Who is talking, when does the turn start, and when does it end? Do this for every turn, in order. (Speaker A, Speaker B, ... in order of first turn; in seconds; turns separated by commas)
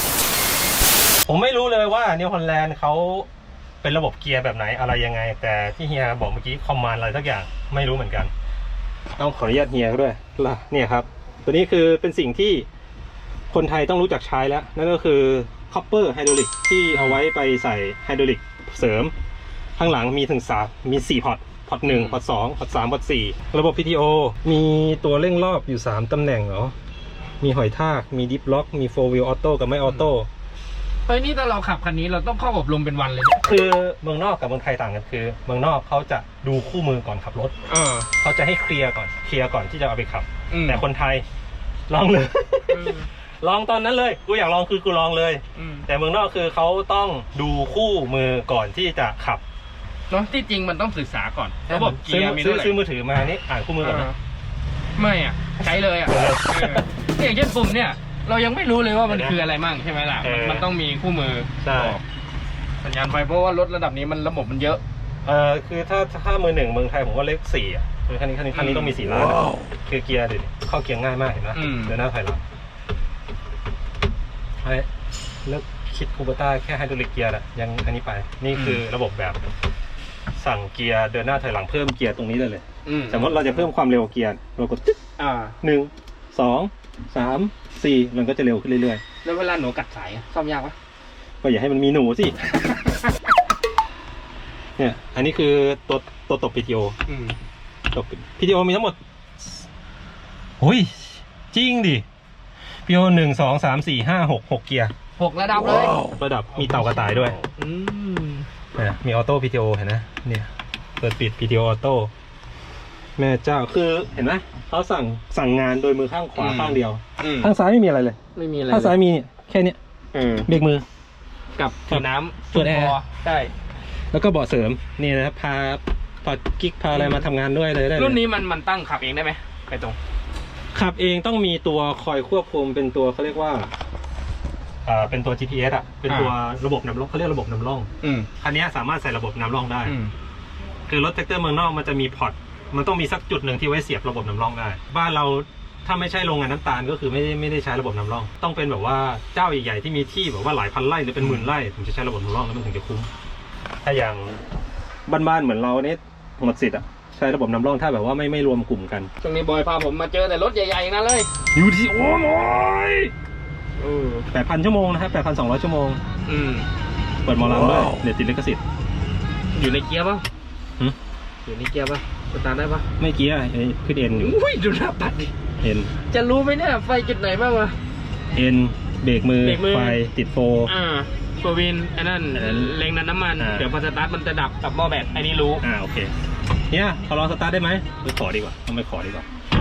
Speaker A: 1.3-3.3, Speaker A: 3.8-8.3, Speaker A: 9.2-12.7, Speaker A: 13.5-19.1, Speaker B: 16.9-17.2, Speaker A: 19.8-26.8, Speaker B: 21.9-22.2, Speaker A: 27.4-30.3, Speaker B: 31.1-33.5, Speaker A: 33.4-37.5, Speaker B: 37.7-38.1, Speaker A: 38.2-41.2, Speaker B: 40.5-40.8, Speaker A: 41.9-49.4, Speaker B: 42.7-43.1, Speaker B: 45.5-45.9, Speaker B: 50.1-52.8, Speaker A: 51.7-54.1, Speaker B: 53.8-54.2, Speaker B: 55.0-62.0, Speaker A: 56.1-56.9, Speaker A: 59.1-59.4, Speaker A: 60.2-60.7, Speaker A: 61.6-62.0, Speaker B: 62.8-64.8, Speaker A: 65.2-72.4, Speaker B: 68.5-69.0, Speaker B: 71.5-72.0, Speaker A: 74.6-74.9, Speaker A: 75.5-79.4, Speaker B: 78.5-78.8, Speaker A: 80.4-85.0, Speaker B: 82.8-83.7, Speaker B: 85.2-85.6, Speaker A: 85.6-89.0, Speaker B: 89.2-90.8, Speaker A: 91.4-92.4, Speaker A: 94.8-97.0, Speaker B: 97.1-97.4, Speaker A: 97.9-99.7, Speaker A: 100.6-102.0, Speaker A: 102.9-104.9, Speaker B: 105.2-106.0, Speaker A: 106.1-107.4, Speaker B: 106.5-108.5, Speaker A: 108.8-112.1, Speaker A: 113.2-118.2, Speaker B: 116.4-117.5, Speaker B: 118.3-119.0, Speaker A: 118.7-119.8, Speaker B: 120.1-120.5, Speaker A: 120.5-120.8, Speaker B: 121.6-123.5, Speaker A: 121.9-123.0, Speaker A: 124.1-128.2, Speaker B: 126.9-127.3, Speaker B: 127.9-130.0, Speaker A: 130.7-133.7, Speaker A: 134.8-139.9, Speaker B: 136.1-136.3, Speaker B: 138.0-138.3, Speaker B: 139.8-140.1, Speaker A: 140.9-153.1, Speaker B: 151.2-151.5, Speaker A: 153.8-154.4, Speaker A: 155.1-159.1, Speaker B: 159.2-161.3, Speaker A: 161.6-163.1, Speaker B: 163.8-164.3, Speaker A: 164.3-166.0, Speaker B: 166.3-166.7, Speaker A: 167.2-168.6, Speaker B: 169.5-170.2, Speaker B: 171.4-172.9, Speaker A: 173.0-174.3, Speaker B: 174.2-175.3, Speaker A: 175.6-175.9, Speaker B: 176.1-177.8, Speaker A: 178.3-180.7, Speaker B: 179.4-180.0, Speaker B: 180.7-185.6, Speaker A: 182.3-182.7, Speaker A: 183.4-183.7, Speaker A: 185.6-186.1, Speaker A: 186.7-189.3